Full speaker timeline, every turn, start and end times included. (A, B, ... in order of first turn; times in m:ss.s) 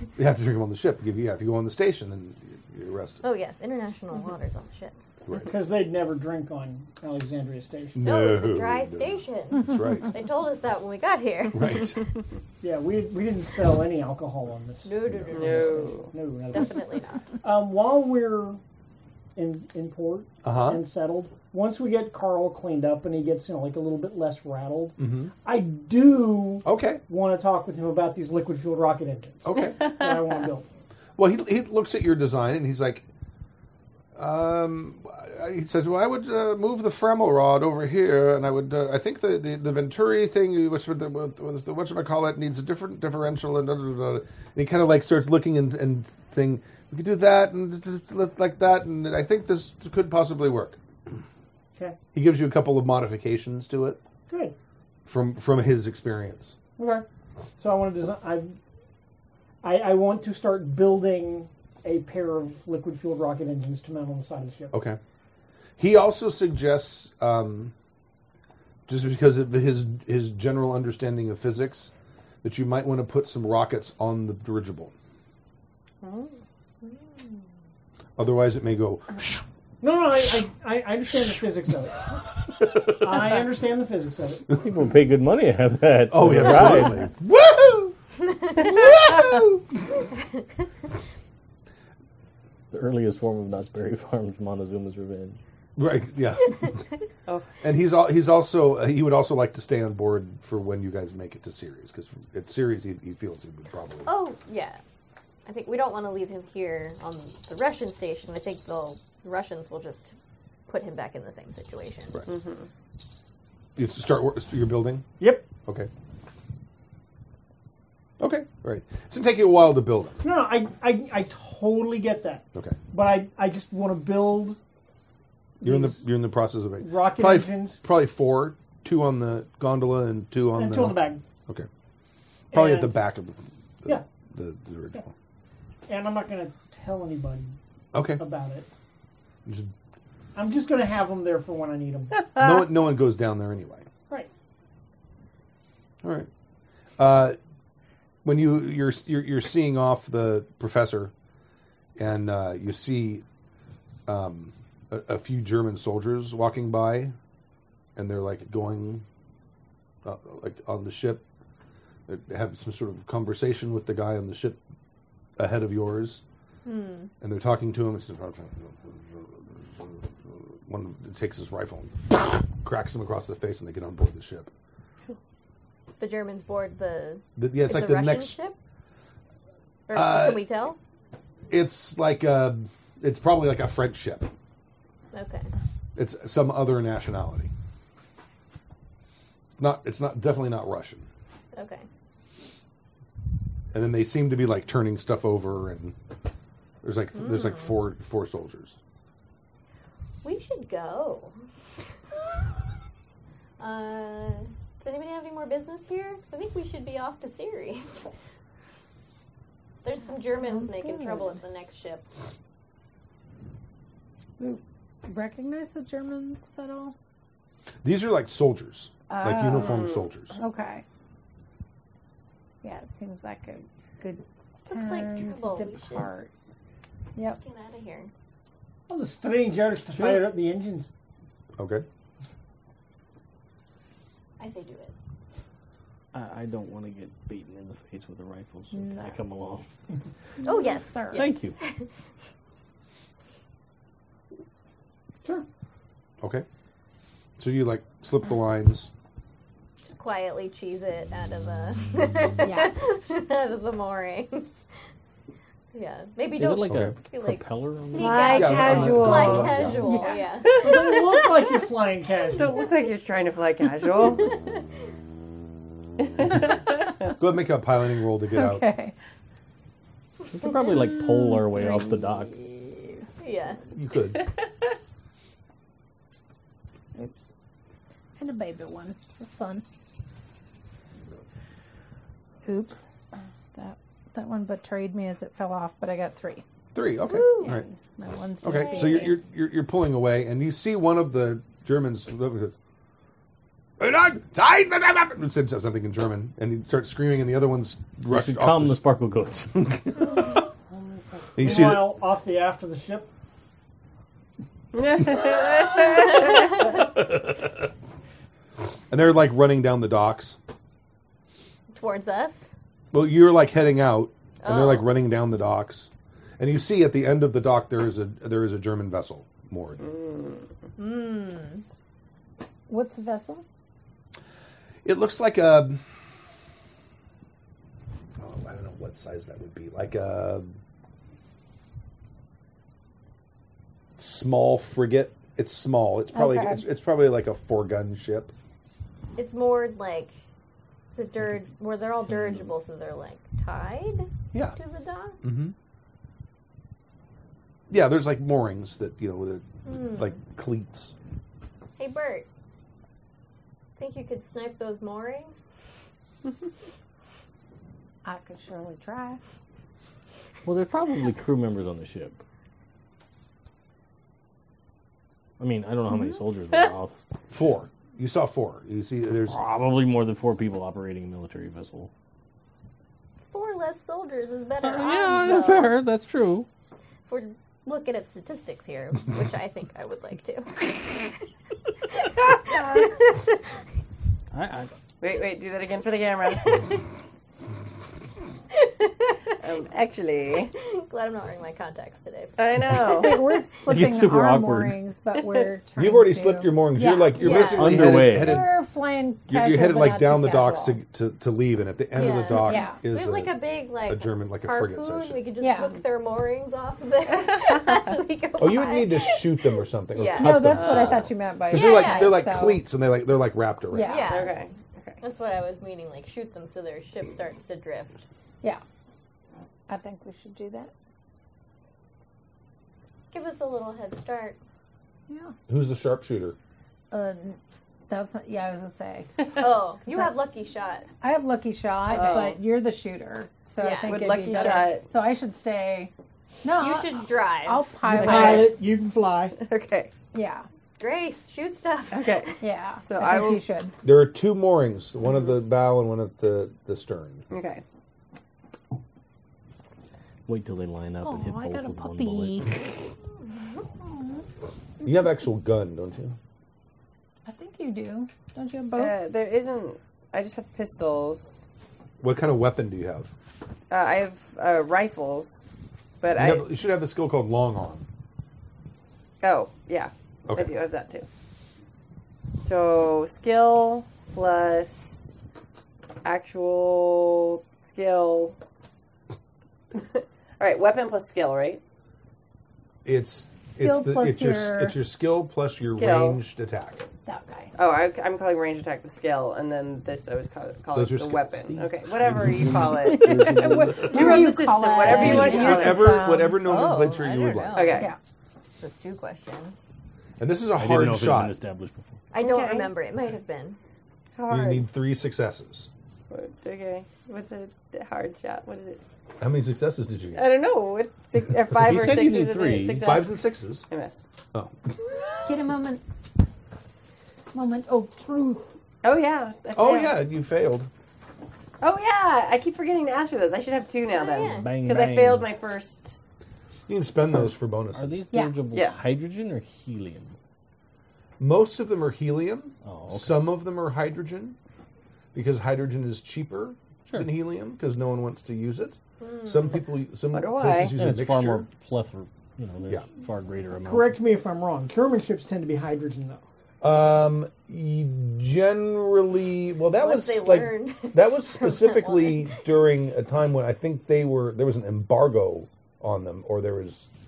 0:00.2-0:03.2 A
0:03.2-0:05.0 B
0:05.3-0:05.5 A
0:05.4-0:08.0 C
0:08.0-0:10.2 A
0:08.0-0:12.0 B
0:11.5-0:12.0 A
0:12.6-0:18.6 C
0:14.8-0:17.3 B
0:15.3-0:16.1 D
0:19.4-0:30.7 C
0:20.4-0:20.8 A
0:25.0-0:25.3 A
0:26.6-0:27.0 A
0:29.4-0:29.9 A
0:31.2-0:33.0 A
0:34.2-0:50.8 A
0:52.1-0:54.0 A
0:54.3-0:54.6 C
0:55.1-0:56.6 A
0:56.8-0:57.1 C
0:57.6-0:58.6 C
0:59.6-1:04.7 C
1:04.7-1:05.0 A
1:05.8-1:07.7 A
1:08.9-1:11.9 A
1:12.4-1:14.9 A
1:16.0-1:16.4 D
1:18.2-1:19.4 A
1:19.8-1:22.1 C
1:22.9-1:24.5 C
1:24.5-1:27.1 E
1:26.1-1:28.0 A
1:28.4-1:28.7 B
1:28.6-1:29.7 A
1:32.7-1:35.4 E
1:35.8-1:36.7 A
1:37.6-1:44.1 A
1:44.0-1:44.8 B
1:45.5-1:52.2 B
1:52.3-1:52.7 D
1:53.8-1:55.1 A
1:55.2-1:55.5 C
1:55.6-1:55.9 A
1:58.2-2:00.2 A
2:00.2-2:04.6 C
2:05.6-2:06.0 C
2:05.6-2:11.7 A
2:06.8-2:07.8 C
2:10.6-2:11.2 C
2:12.5-2:13.0 C
2:12.5-2:15.1 A
2:15.9-2:17.6 C
2:17.9-2:18.2 A
2:18.2-2:18.7 C
2:19.5-2:19.7 A
2:20.4-2:22.3 C
2:22.1-2:22.7 D
2:22.4-2:23.9 A
2:26.0-2:26.3 A
2:27.0-2:27.4 A
2:28.2-2:31.1 A
2:32.0-2:33.2 A
2:34.1-2:37.2 A
2:38.0-2:39.0 A
2:40.0-2:41.2 A
2:42.1-2:44.6 A
2:45.4-2:46.2 A
2:46.6-2:47.1 B
2:47.2-2:54.5 A
2:56.0-2:58.6 B
2:57.4-2:58.4 A
2:59.9-3:00.8 B
2:59.9-3:00.7 A
3:01.5-3:04.3 A
3:05.1-3:05.5 B
3:06.0-3:07.5 A
3:09.6-3:11.1 A
3:11.5-3:11.9 B
3:13.7-3:16.0 A
3:16.8-3:18.8 A
3:17.2-3:17.8 B
3:20.2-3:21.3 B
3:23.6-3:28.1 B
3:29.8-3:32.1 B
3:30.4-3:31.4 F
3:34.4-3:36.9 F
3:37.8-3:40.3 A
3:39.1-3:40.8 F
3:39.6-3:40.1 D
3:42.6-3:46.3 F
3:44.7-3:46.1 B
3:47.4-3:48.1 B
3:48.9-3:50.9 C
3:51.6-3:51.9 A
3:54.4-3:55.0 B
3:56.1-3:59.6 E
3:58.7-3:59.2 F
4:00.4-4:01.5 F
4:00.4-4:01.9 B
4:01.1-4:01.6 E
4:06.2-4:06.5 A
4:07.4-4:08.9 A
4:09.8-4:14.6 B
4:12.4-4:12.8 F
4:15.7-4:21.6 B
4:16.3-4:18.4 E
4:16.7-4:17.0 A
4:18.0-4:19.7 D
4:18.3-4:19.8 A
4:19.3-4:19.8 E
4:19.8-4:20.3 F
4:20.5-4:21.3 D
4:20.6-4:22.6 C
4:22.3-4:24.3 D
4:24.0-4:24.6 B
4:26.0-4:27.1 D
4:27.1-4:28.6 A
4:28.3-4:28.9 F
4:30.3-4:32.4 E
4:30.4-4:31.6 B
4:33.2-4:33.6 B
4:33.7-4:34.2 A
4:34.2-4:34.7 D
4:37.0-4:37.3 F
4:38.2-4:39.6 F
4:42.4-4:42.8 F
4:43.6-4:46.4 F
4:46.7-4:47.6 A
4:47.1-4:47.6 B
4:47.3-4:49.2 F
4:48.4-4:52.6 A
4:48.5-4:49.1 B
4:53.8-4:58.8 A
4:58.1-4:59.9 E
4:59.6-4:59.9 A
5:00.7-5:01.6 D
5:01.4-5:01.9 A
5:01.4-5:03.1 C
5:04.7-5:06.8 D
5:08.9-5:10.4 A
5:11.7-5:12.5 B
5:12.9-5:19.8 A
5:14.4-5:14.9 B
5:19.8-5:20.5 D
5:20.8-5:21.6 B
5:22.7-5:23.4 F
5:24.8-5:25.8 A
5:28.2-5:30.5 A
5:34.0-5:38.3 A
5:36.1-5:36.7 F
5:39.2-5:40.1 B
5:40.9-5:45.2 B
5:42.1-5:42.4 E
5:45.2-5:45.6 A
5:47.7-5:51.0 A
5:49.6-5:50.2 B
5:51.8-5:52.3 B
5:53.8-5:55.4 B
5:58.0-5:59.2 F
6:00.4-6:02.2 E
6:05.4-6:07.0 E
6:07.3-6:09.4 A
6:09.3-6:11.9 E
6:13.3-6:15.8 B
6:14.6-6:16.5 E
6:17.1-6:21.2 B
6:21.9-6:23.4 B
6:22.3-6:22.9 D
6:24.3-6:24.7 E
6:25.0-6:26.7 D
6:28.5-6:29.2 B
6:29.4-6:30.5 D
6:30.6-6:33.3 B
6:32.4-6:33.3 D
6:32.9-6:40.8 F
6:33.7-6:34.9 E
6:35.2-6:35.4 D
6:35.8-6:38.5 A
6:37.2-6:37.7 B
6:37.4-6:38.5 E
6:39.3-6:45.2 A
6:41.9-6:49.4 B
6:42.3-6:42.8 F
6:45.4-6:45.8 F
6:47.2-6:47.8 D
6:48.4-6:54.1 A
6:49.9-6:50.8 B
6:50.2-6:52.6 F
6:50.5-6:51.0 D
6:51.5-6:52.2 B
6:53.7-6:54.1 F
6:53.8-6:54.4 B
6:54.1-6:55.0 D
6:55.0-6:58.1 B
6:59.7-7:00.7 F
7:03.1-7:04.4 B
7:05.1-7:05.4 F
7:05.5-7:06.4 A
7:06.9-7:09.1 F
7:09.4-7:10.9 B
7:09.9-7:10.1 F
7:11.0-7:15.9 F
7:11.9-7:12.4 D
7:11.9-7:12.2 B
7:13.6-7:14.7 B
7:13.8-7:14.8 D
7:16.4-7:18.5 F
7:16.6-7:17.7 B
7:17.9-7:19.4 C
7:17.9-7:18.6 D
7:19.4-7:19.9 D
7:20.1-7:20.4 F
7:20.8-7:22.4 B
7:21.9-7:23.5 D
7:22.4-7:23.7 F
7:23.8-7:27.2 A
7:25.1-7:25.4 D
7:27.3-7:27.6 D
7:30.3-7:32.6 E
7:31.0-7:32.7 F
7:34.8-7:36.2 A
7:37.2-7:39.0 F
7:38.8-7:41.4 D
7:42.0-7:43.1 A
7:43.7-7:46.5 D
7:46.1-7:47.9 A
7:49.2-7:51.1 D
7:50.3-7:50.6 A
7:52.4-7:55.2 D
7:56.0-7:58.4 D
7:59.7-8:01.6 D
8:02.8-8:06.8 A
8:03.6-8:04.9 F
8:05.6-8:06.2 D
8:07.1-8:07.5 F
8:07.6-8:16.0 D
8:10.7-8:11.5 A
8:11.5-8:14.4 E
8:12.8-8:16.4 F
8:14.8-8:15.2 B
8:14.9-8:17.7 A
8:15.0-8:15.4 E
8:16.4-8:17.9 B
8:17.5-8:17.9 D
8:18.6-8:19.6 B
8:20.2-8:21.4 A
8:20.6-8:22.0 E
8:22.1-8:23.6 B
8:22.2-8:22.7 D
8:24.2-8:24.7 D
8:24.3-8:25.7 A
8:26.1-8:28.8 D
8:29.2-8:30.3 A
8:30.1-8:34.1 D
8:31.5-8:32.9 E
8:32.8-8:33.7 A
8:35.2-8:35.8 F
8:37.3-8:38.6 F
8:38.8-8:40.0 D
8:39.6-8:40.7 A
8:41.6-8:46.1 D
8:43.9-8:44.5 B
8:44.2-8:45.3 E
8:46.7-8:48.0 A
8:47.7-8:50.2 E
8:48.1-8:48.4 F
8:48.5-8:49.0 D
8:51.2-8:54.4 A
8:52.6-8:53.2 E
8:55.1-9:01.5 A
8:59.0-8:59.6 B
9:00.1-9:00.7 D
9:00.7-9:04.0 E
9:03.6-9:06.2 C
9:06.6-9:16.9 A
9:09.7-9:12.5 B